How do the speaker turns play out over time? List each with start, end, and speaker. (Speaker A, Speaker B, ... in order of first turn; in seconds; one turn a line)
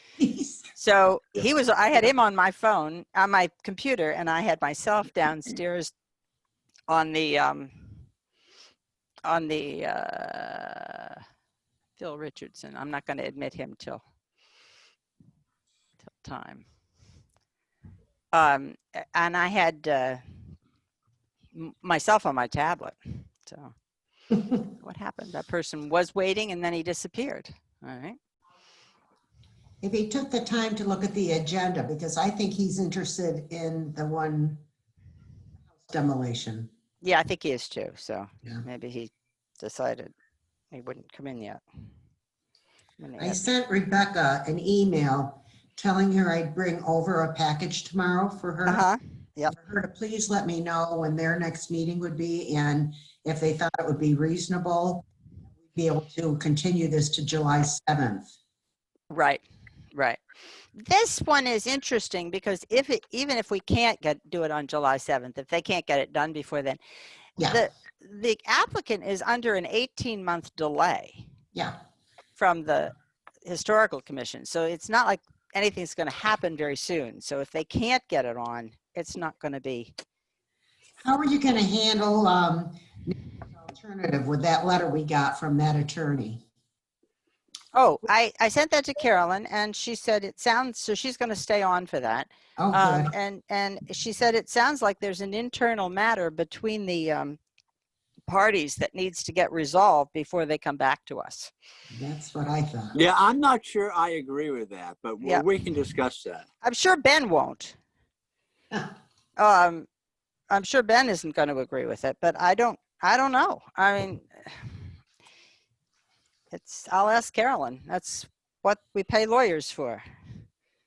Speaker A: 0.2-0.6
Speaker B: 0.7-5.9
Speaker B: 6.9-7.7
Speaker B: 9.2-11.2
Speaker B: 12.0-14.0
Speaker B: 16.1-16.6
Speaker B: 18.3-20.2
Speaker B: 21.5-23.7
Speaker B: 24.6-28.2
Speaker A: 29.8-34.6
Speaker A: 35.8-36.7
Speaker B: 37.0-40.1
Speaker B: 40.7-41.6
Speaker B: 43.0-43.4
Speaker A: 43.2-48.8
Speaker B: 48.7-49.5
Speaker A: 49.5-55.0
Speaker A: 55.7-58.3
Speaker B: 59.1-59.4
Speaker B: 59.9-60.2
Speaker B: 60.8-66.8
Speaker A: 67.4-67.7
Speaker B: 67.4-71.2
Speaker B: 72.4-72.9
Speaker B: 73.5-79.9
Speaker A: 81.0-86.4
Speaker B: 87.7-97.4
Speaker A: 92.6-93.1
Speaker B: 98.3-101.5
Speaker A: 101.9-103.0
Speaker C: 102.9-106.4
Speaker B: 106.6-107.8
Speaker B: 109.4-109.9
Speaker B: 110.5-114.6
Speaker B: 116.5-120.0